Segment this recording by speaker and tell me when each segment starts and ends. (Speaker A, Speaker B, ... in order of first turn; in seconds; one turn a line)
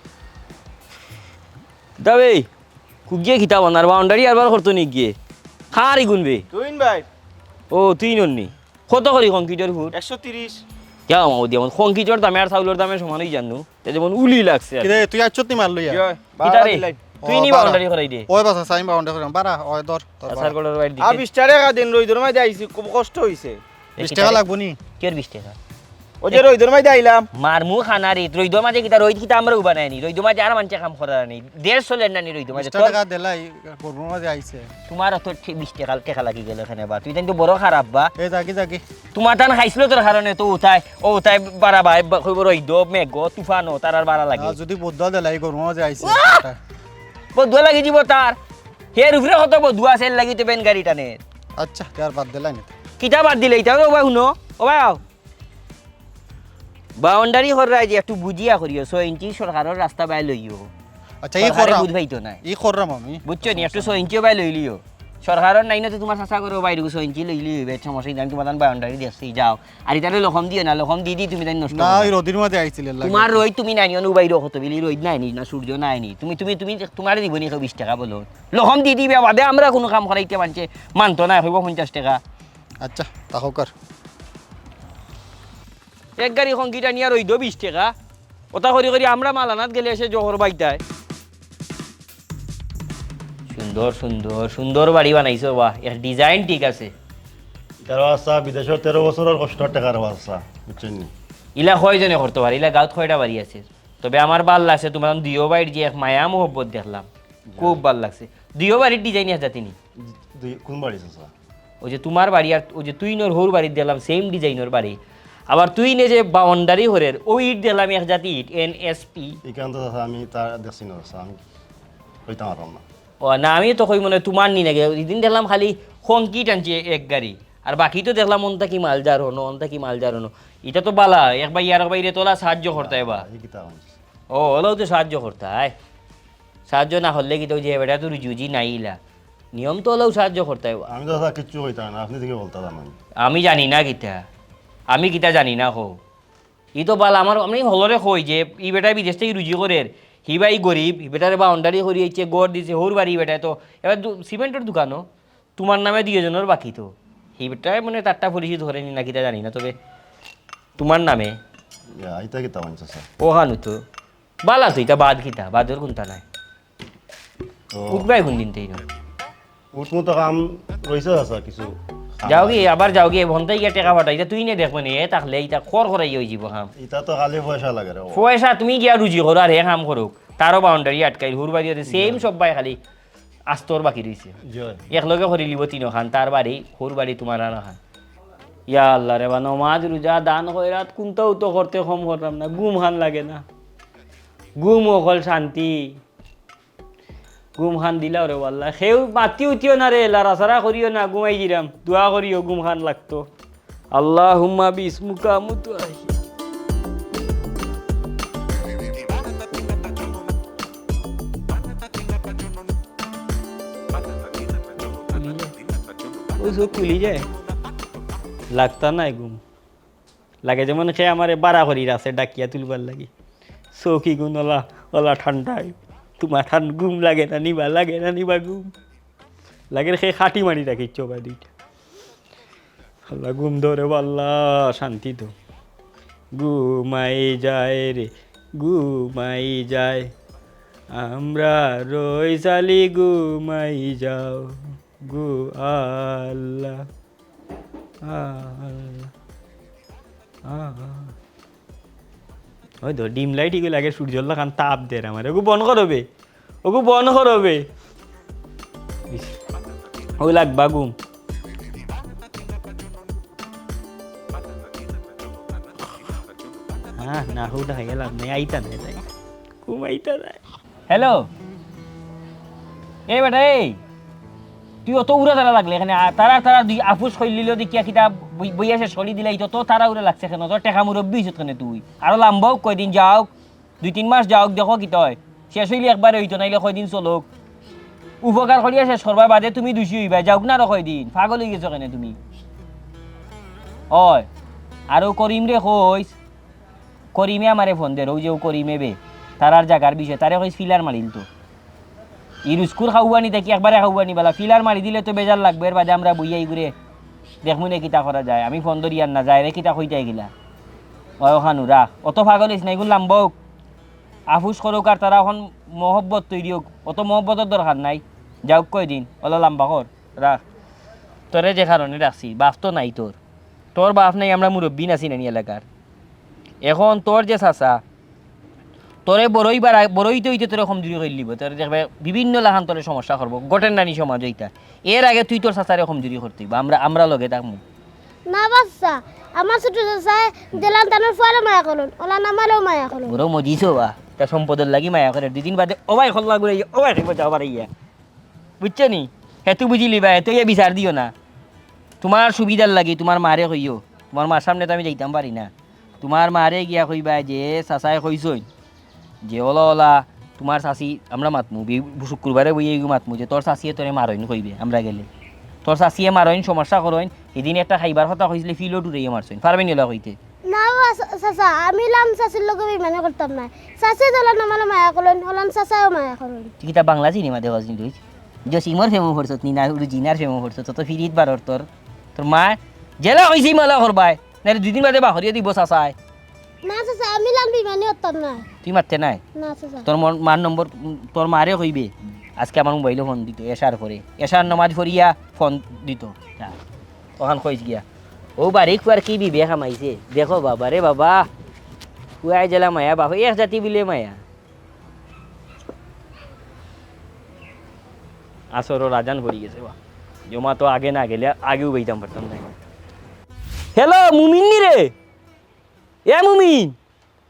Speaker A: 2.0-2.5
Speaker A: 3.1-5.1
Speaker A: 5.7-6.4
Speaker B: 6.5-7.0
Speaker A: 7.7-9.9
Speaker B: 10.1-10.5
Speaker A: 11.1-15.0
Speaker C: 14.8-16.6
Speaker A: 16.4-18.3
Speaker B: 16.5-16.9
Speaker C: 17.1-20.5
Speaker A: 20.2-21.2
Speaker B: 21.0-23.6
Speaker A: 24.0-24.4
Speaker C: 24.0-24.8
Speaker A: 25.0-25.6
Speaker B: 26.2-27.2
Speaker A: 27.3-33.0
Speaker C: 32.5-34.7
Speaker A: 34.9-38.1
Speaker C: 38.2-38.8
Speaker A: 39.1-44.6
Speaker C: 44.4-46.6
Speaker A: 46.0-46.4
Speaker A: 47.3-48.4
Speaker A: 48.9-51.2
Speaker C: 51.6-52.7
Speaker A: 53.0-55.0
Speaker A: 57.0-60.7
Speaker C: 61.2-61.9
Speaker A: 61.4-62.4
Speaker C: 62.4-63.9
Speaker A: 63.2-72.2
Speaker C: 71.7-73.4
Speaker A: 73.0-82.2
Speaker C: 82.8-83.7
Speaker A: 86.2-87.9
Speaker A: 88.5-90.8
Speaker A: 93.5-96.9
Speaker D: 97.8-101.1
Speaker A: 101.5-107.1
Speaker D: 107.5-107.8
Speaker A: 107.6-109.8
Speaker D: 110.1-111.3
Speaker A: 111.8-119.4
Speaker D: 119.4-121.4
Speaker D: 122.2-122.8
Speaker A: 123.2-133.2
Speaker D: 132.7-133.9
Speaker A: 134.3-135.7
Speaker A: 136.7-139.0
Speaker A: 139.5-140.9
Speaker D: 140.9-142.9
Speaker A: 143.2-144.2
Speaker A: 144.9-146.0
Speaker A: 146.8-155.1
Speaker A: 155.6-159.8
Speaker A: 160.8-161.4
Speaker D: 161.9-163.0
Speaker A: 163.2-163.8
Speaker A: 164.4-166.2
Speaker D: 167.7-168.1
Speaker A: 167.9-168.8
Speaker D: 169.7-173.0
Speaker A: 172.3-176.7
Speaker D: 176.8-178.2
Speaker A: 178.1-182.8
Speaker D: 181.9-182.2
Speaker A: 183.5-184.3
Speaker D: 184.5-184.8
Speaker A: 184.9-187.8
Speaker A: 188.7-193.4
Speaker A: 194.6-196.0
Speaker A: 197.6-203.3
Speaker A: 203.9-206.2
Speaker A: 214.9-215.5
Speaker A: 216.4-217.2
Speaker A: 218.5-219.4
Speaker A: 220.4-223.1
Speaker A: 223.7-228.7
Speaker A: 229.7-231.5
Speaker A: 233.1-235.3
Speaker A: 236.3-240.1
Speaker A: 240.9-246.8
Speaker A: 248.0-249.1
Speaker A: 250.4-251.1
Speaker A: 252.8-256.0
Speaker A: 256.6-257.6
Speaker A: 260.2-260.9
Speaker A: 267.0-269.1
Speaker A: 269.6-271.3
Speaker A: 273.1-273.8
Speaker A: 274.9-283.3
Speaker A: 283.8-287.3
Speaker A: 288.2-292.2
Speaker A: 293.9-294.3
Speaker A: 294.9-296.1
Speaker A: 297.1-301.3
Speaker A: 302.4-306.7
Speaker A: 307.4-310.3
Speaker A: 311.2-313.3
Speaker A: 314.3-320.4
Speaker A: 321.3-323.1
Speaker A: 323.7-325.6
Speaker A: 326.6-327.8
Speaker A: 329.1-337.6
Speaker E: 338.3-343.2
Speaker A: 343.1-347.7
Speaker A: 348.6-351.1
Speaker A: 352.0-358.5
Speaker A: 359.2-365.1
Speaker A: 365.6-370.2
Speaker E: 370.5-376.5
Speaker A: 376.6-385.9
Speaker E: 386.6-388.4
Speaker A: 388.6-389.2
Speaker E: 389.4-389.9
Speaker A: 389.8-396.6
Speaker A: 397.2-397.8
Speaker A: 398.4-401.3
Speaker A: 402.2-404.2
Speaker A: 408.5-409.8
Speaker A: 410.3-412.6
Speaker A: 413.7-414.9
Speaker A: 416.1-416.8